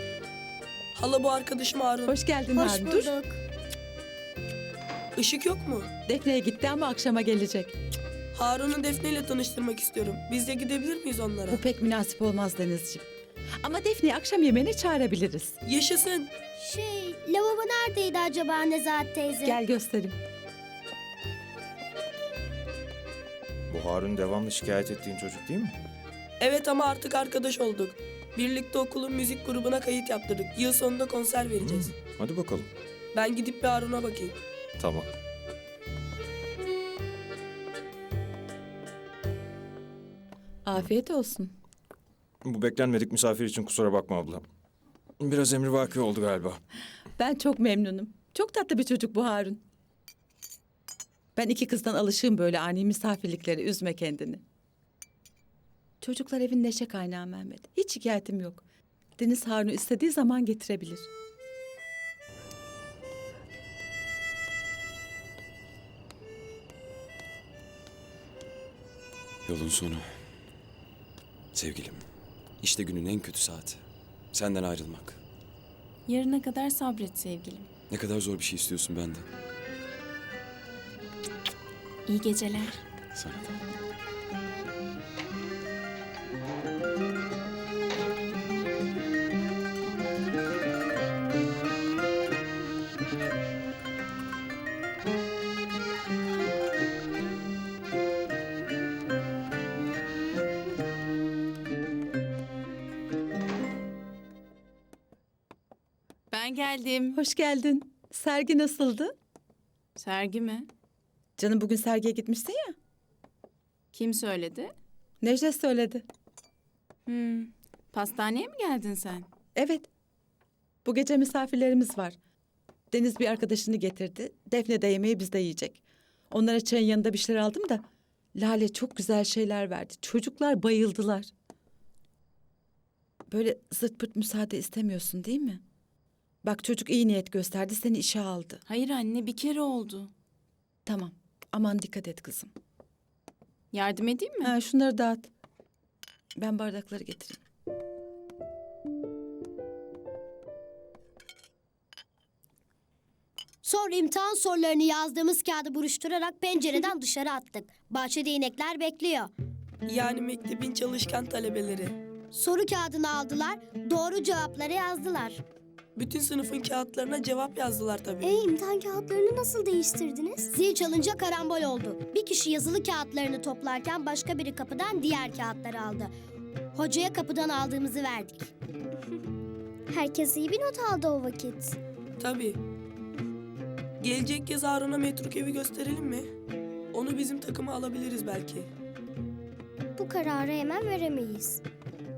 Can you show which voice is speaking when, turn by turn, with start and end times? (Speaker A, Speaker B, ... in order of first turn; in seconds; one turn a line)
Speaker A: 0.9-2.2
Speaker B: 2.0-3.1
Speaker C: 2.5-3.4
Speaker A: 5.2-5.9
Speaker B: 6.1-7.7
Speaker A: 8.3-11.6
Speaker B: 11.5-13.1
Speaker B: 13.6-15.6
Speaker A: 15.6-16.3
Speaker C: 16.6-19.6
Speaker B: 19.4-20.2
Speaker D: 23.7-25.8
Speaker A: 26.4-31.9
Speaker D: 31.6-32.7
Speaker A: 33.1-34.4
Speaker D: 34.8-35.1
Speaker B: 40.6-41.5
Speaker D: 42.4-44.4
Speaker D: 45.2-46.6
Speaker B: 47.2-49.6
Speaker B: 51.4-54.4
Speaker B: 56.0-58.6
Speaker B: 59.2-61.1
Speaker E: 69.4-70.2
Speaker E: 71.5-75.2
Speaker F: 76.1-77.7
Speaker E: 77.9-79.3
Speaker F: 82.0-82.8
Speaker E: 83.1-83.5
Speaker F: 106.3-107.2
Speaker B: 107.1-109.1
Speaker F: 109.9-110.7
Speaker B: 111.4-112.7
Speaker F: 113.9-114.7
Speaker B: 115.2-116.0
Speaker F: 117.1-119.3
Speaker B: 119.5-119.9
Speaker B: 120.8-122.2
Speaker B: 122.9-127.8
Speaker B: 128.3-131.3
Speaker B: 133.3-135.6
Speaker B: 136.4-138.6
Speaker F: 138.7-140.1
Speaker B: 140.8-142.5
Speaker F: 143.7-144.5
Speaker B: 144.4-145.3
Speaker B: 146.3-147.4
Speaker C: 153.6-159.3
Speaker A: 159.8-161.9
Speaker C: 162.3-165.4
Speaker A: 165.9-168.3
Speaker C: 168.2-176.1
Speaker C: 176.7-178.5
Speaker C: 179.9-181.8
Speaker A: 182.2-182.6
Speaker A: 184.0-186.2
Speaker A: 186.9-188.7
Speaker C: 190.0-191.6